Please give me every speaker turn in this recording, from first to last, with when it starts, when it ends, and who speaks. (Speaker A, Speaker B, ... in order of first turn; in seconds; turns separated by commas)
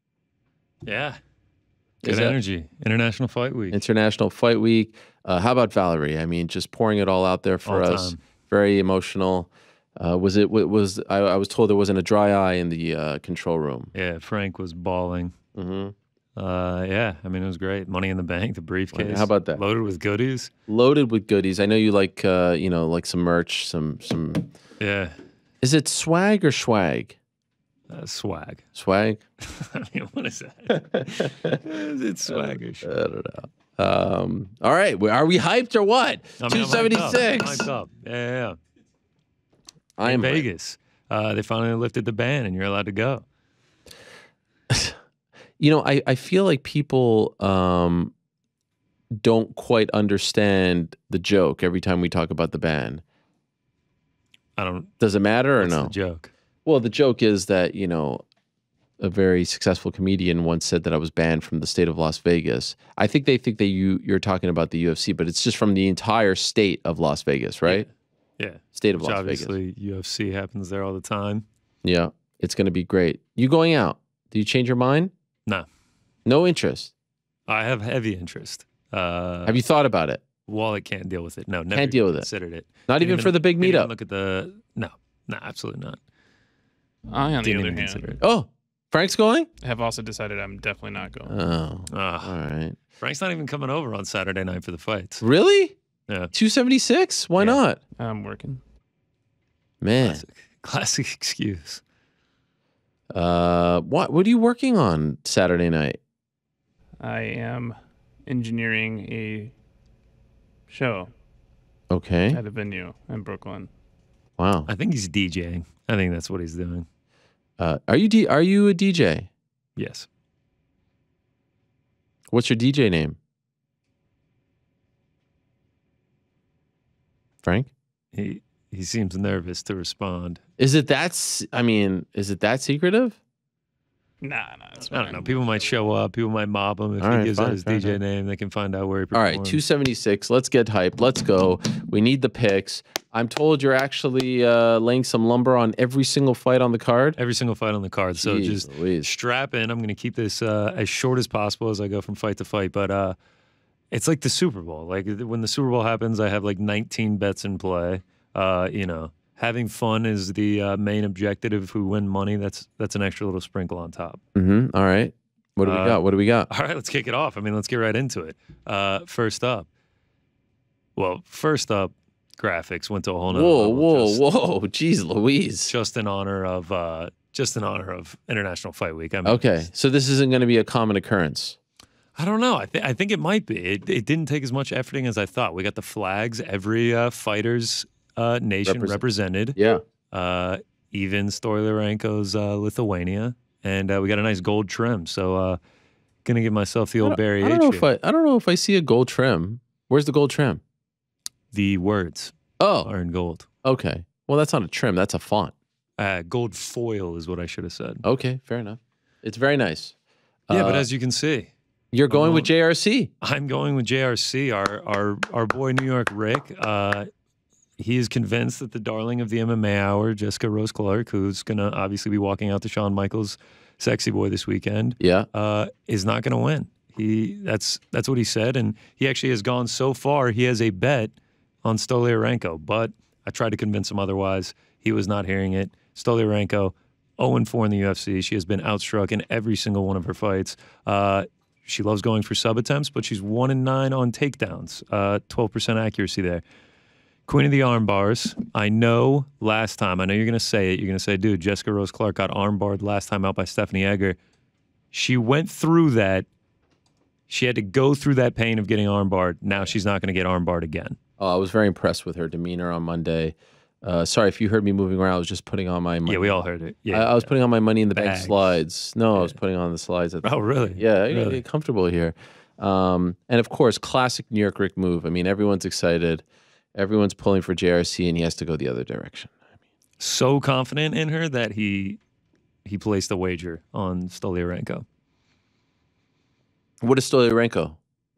Speaker A: 0.8-1.2, Speaker B: 2.0-2.4, Speaker A: 2.0-3.8, Speaker B: 3.7-13.9, Speaker A: 7.7-8.2, Speaker A: 13.9-15.3, Speaker B: 15.6-15.9, Speaker A: 16.4-20.5, Speaker B: 18.9-19.6, Speaker B: 20.7-24.5, Speaker A: 24.8-25.1, Speaker B: 25.6-27.2, Speaker A: 27.9-28.7, Speaker B: 28.8-29.2, Speaker A: 29.4-32.9, Speaker B: 30.9-31.6, Speaker B: 32.3-37.7, Speaker A: 36.4-38.6, Speaker B: 40.0-40.5, Speaker A: 40.0-43.2, Speaker B: 44.7-45.0, Speaker B: 45.6-48.1, Speaker B: 49.2-53.0, Speaker A: 54.6-54.9, Speaker B: 55.0-55.9, Speaker A: 55.6-56.3, Speaker B: 56.7-58.2, Speaker B: 59.0-67.9, Speaker A: 68.4-71.5, Speaker B: 68.7-69.5, Speaker B: 71.8-75.1, Speaker B: 76.3-76.9, Speaker A: 77.5-79.6, Speaker B: 79.5-80.2, Speaker A: 80.5-86.0, Speaker B: 81.7-82.3, Speaker B: 82.9-83.9, Speaker C: 87.1-88.1, Speaker A: 87.4-88.2, Speaker B: 88.2-89.5, Speaker C: 89.6-91.5, Speaker B: 91.3-92.8, Speaker A: 91.9-92.4, Speaker A: 93.0-95.2, Speaker B: 95.2-95.8, Speaker B: 96.3-97.8, Speaker C: 97.4-98.6, Speaker B: 99.8-100.2, Speaker A: 100.0-101.8, Speaker B: 103.1-106.0, Speaker C: 107.0-109.5, Speaker C: 110.7-111.1, Speaker B: 111.9-112.4, Speaker C: 112.3-113.7, Speaker B: 114.4-114.7, Speaker A: 114.7-116.9, Speaker B: 117.6-119.3, Speaker A: 119.8-120.1, Speaker B: 122.3-123.2, Speaker B: 127.4-127.7, Speaker A: 128.1-130.4, Speaker B: 130.6-133.2, Speaker C: 134.2-135.4, Speaker A: 134.9-139.6, Speaker B: 137.0-138.0, Speaker B: 139.1-147.2, Speaker A: 147.2-153.2, Speaker B: 148.2-149.1, Speaker A: 153.9-164.2, Speaker B: 164.3-166.5, Speaker A: 165.6-169.7, Speaker A: 171.0-174.2, Speaker B: 173.3-175.7, Speaker A: 175.7-179.7, Speaker B: 179.2-181.6, Speaker A: 182.2-189.6, Speaker B: 188.7-189.0, Speaker B: 189.6-189.8, Speaker A: 190.1-195.6, Speaker A: 196.2-197.9, Speaker B: 197.0-200.6, Speaker A: 201.5-203.5, Speaker B: 202.6-202.9, Speaker B: 203.6-205.5, Speaker A: 206.0-208.1, Speaker B: 208.0-209.9, Speaker A: 210.5-211.5, Speaker B: 210.5-210.9, Speaker B: 211.9-213.1, Speaker A: 212.1-212.5, Speaker A: 213.2-217.1, Speaker A: 217.8-231.1, Speaker B: 225.0-225.3, Speaker A: 231.6-246.4, Speaker A: 247.3-254.2, Speaker A: 254.9-256.3, Speaker A: 257.3-261.0, Speaker B: 261.2-266.4, Speaker A: 266.1-267.3, Speaker B: 266.9-279.3, Speaker A: 267.9-268.5, Speaker A: 270.2-271.4, Speaker A: 280.0-282.0, Speaker A: 282.6-284.9, Speaker B: 286.8-287.8